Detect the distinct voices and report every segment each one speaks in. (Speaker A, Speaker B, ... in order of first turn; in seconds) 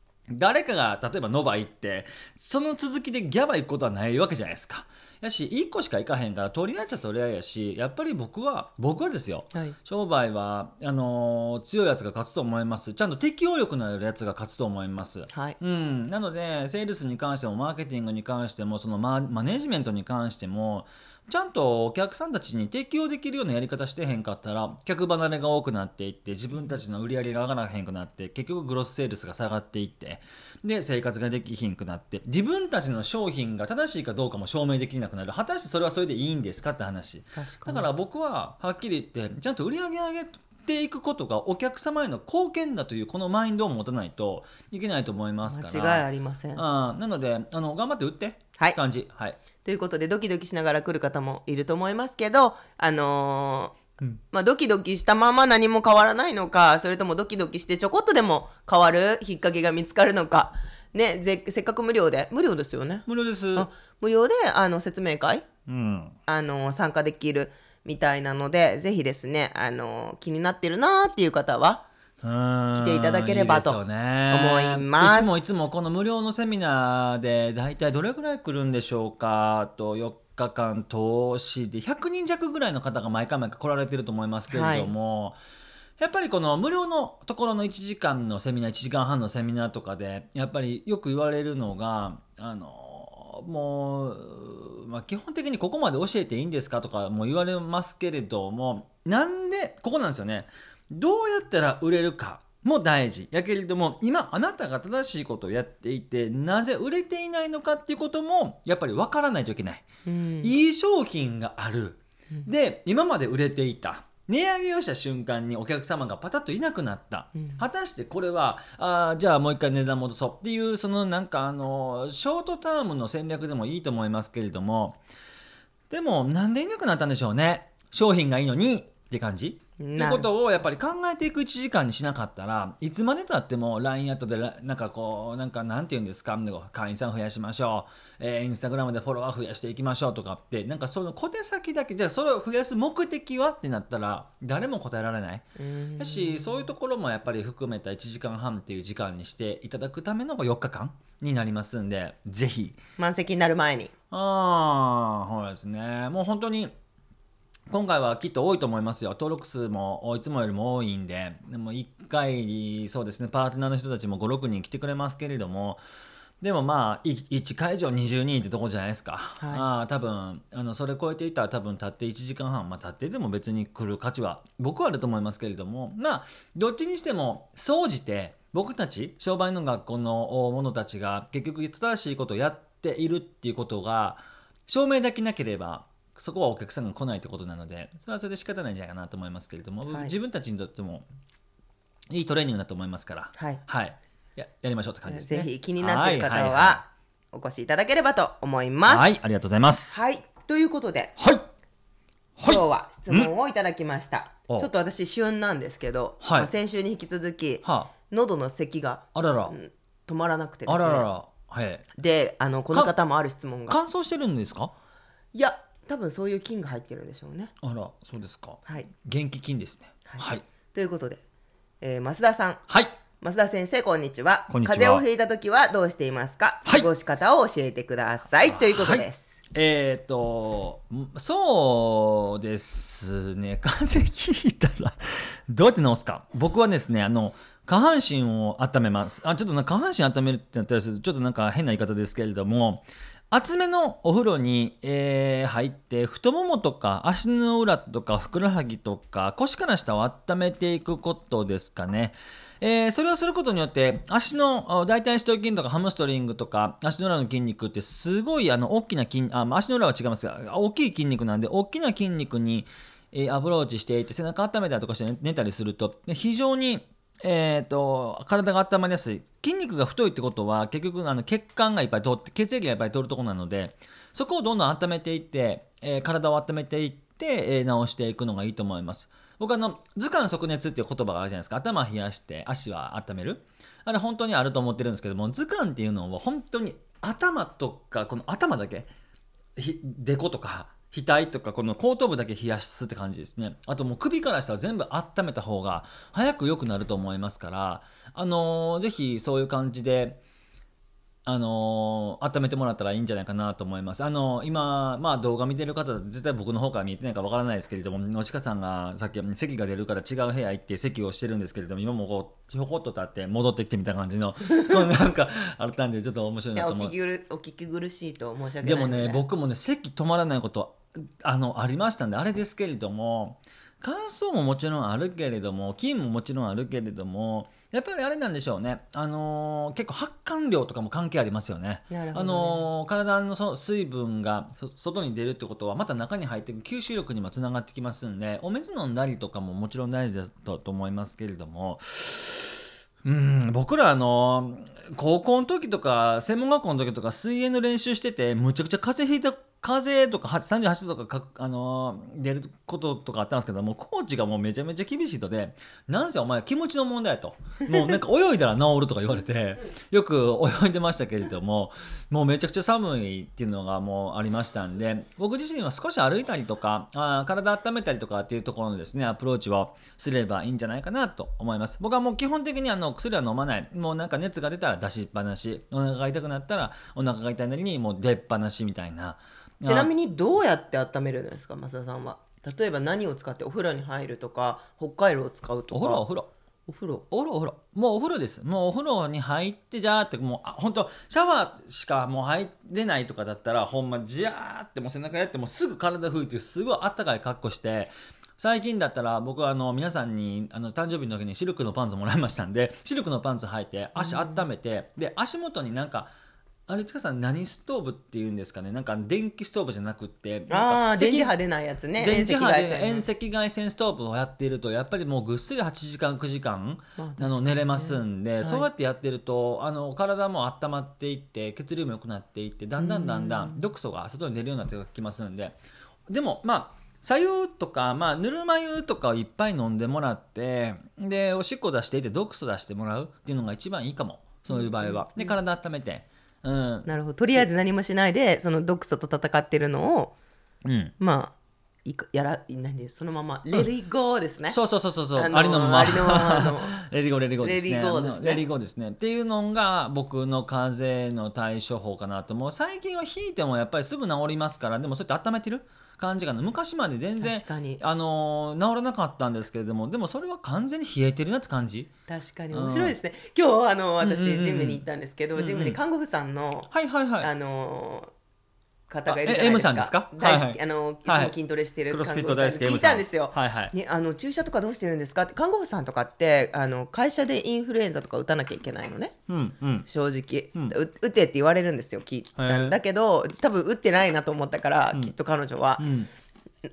Speaker A: 0.3-46.0, 46.6-49.4, 63.1-63.7, 65.7-66.2, 72.2-85.4, 86.0-109.9, 110.4-125.0, 125.9-145.4, 146.0-152.8, 154.1-156.7, 157.7-165.8, 166.4-191.1, 192.1-196.8, 198.9-200.0, 201.2-201.5, 202.4-203.3, 206.2-206.5, 207.6-207.9, 209.2-209.6, 210.7-211.9, 213.7-214.7, 217.6-220.4, 222.7-222.9, 224.5-225.1, 228.4-288.9, 289.6-300.2, 301.3-316.9, 318.6-379.9, 385.7-386.3, 387.1-406.1, 406.7-411.3, 412.0-425.6, 426.1-437.4, 440.6-440.9, 444.5-461.9, 462.5-463.0, 464.0-464.8, 465.4-465.8, 466.7-467.3, 469.1-471.4, 471.9-473.7, 479.3-479.9, 482.4-482.8, 485.8-486.1
Speaker B: 15.3-15.6, 37.4-37.9, 45.5-46.6, 49.6-65.5, 66.3-71.8, 72.8-75.6, 84.5-84.9, 110.1-110.5, 117.3-117.6, 129.8-130.3, 145.6-146.7, 153.0-153.9, 169.4-169.7, 189.9-190.1, 193.4-193.6, 195.1-199.1, 199.9-201.2, 202.4-211.1, 212.0-213.8, 215.3-217.5, 220.1-221.2, 221.8-222.6, 223.2-229.4, 316.6-319.2, 331.9-332.6, 379.6-386.0, 386.7-387.1, 404.0-404.4, 410.5-413.1, 417.0-418.7, 422.8-423.6, 434.5-435.4, 436.9-440.1, 441.0-441.3, 441.9-444.6, 445.1-446.8, 447.4-448.4, 457.2-457.8, 462.1-466.7, 467.2-468.1, 468.9-479.1, 479.9-485.9